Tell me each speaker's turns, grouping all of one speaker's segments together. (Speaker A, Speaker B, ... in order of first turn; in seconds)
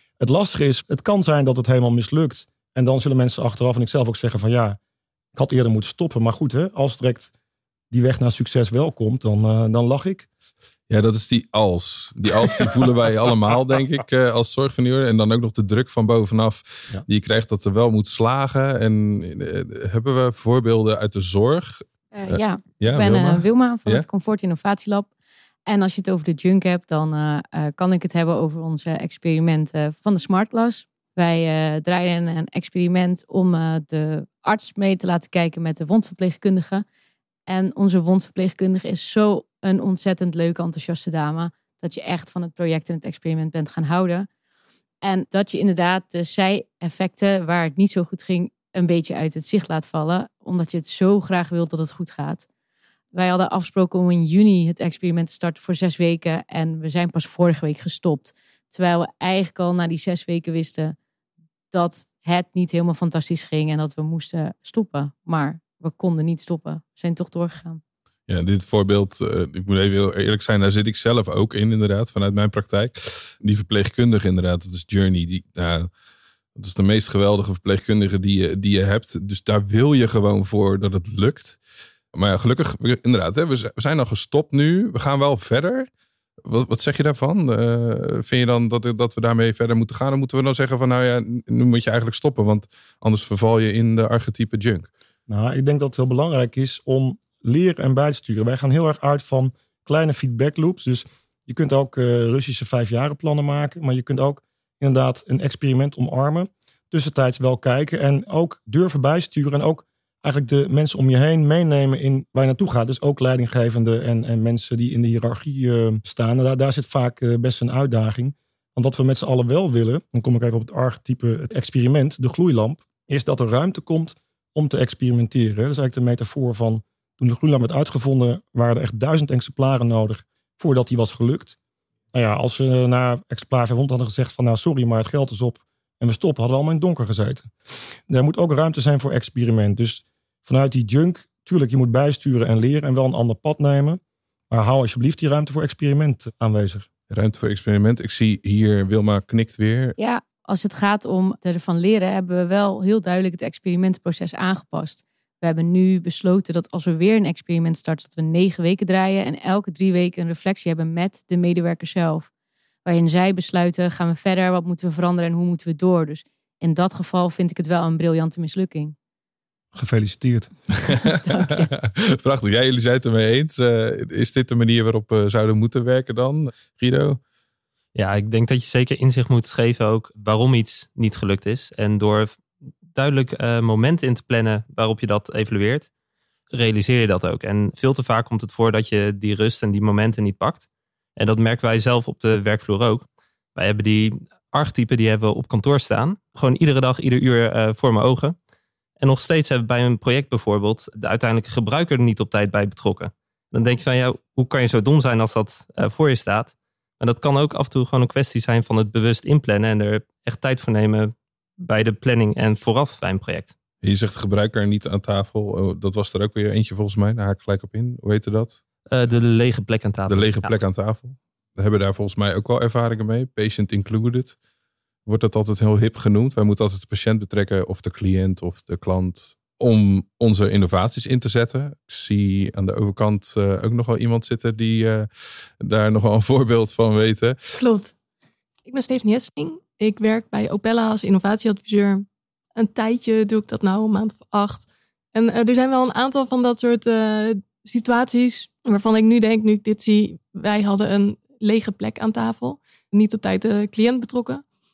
Speaker A: 0.2-4.8, 5.3-7.3, 7.9-10.3, 95.3-131.6, 132.1-137.5, 138.1-146.9, 169.7-170.6
Speaker B: 10.9-24.1, 68.3-75.9, 76.6-81.6, 82.1-85.9, 86.5-94.9, 147.1-150.0, 170.8-177.2, 213.8-219.1, 220.1-224.4, 225.1-235.1, 235.6-237.4
Speaker C: 22.1-25.1, 25.7-36.9, 37.5-44.3, 45.0-52.5, 53.1-61.0, 61.7-67.8, 150.0-162.3, 162.8-168.9, 171.2-171.7
Speaker D: 177.9-185.9, 186.5-198.4, 199.0-213.6, 218.9-220.6
Speaker E: 237.6-237.9, 238.7-254.4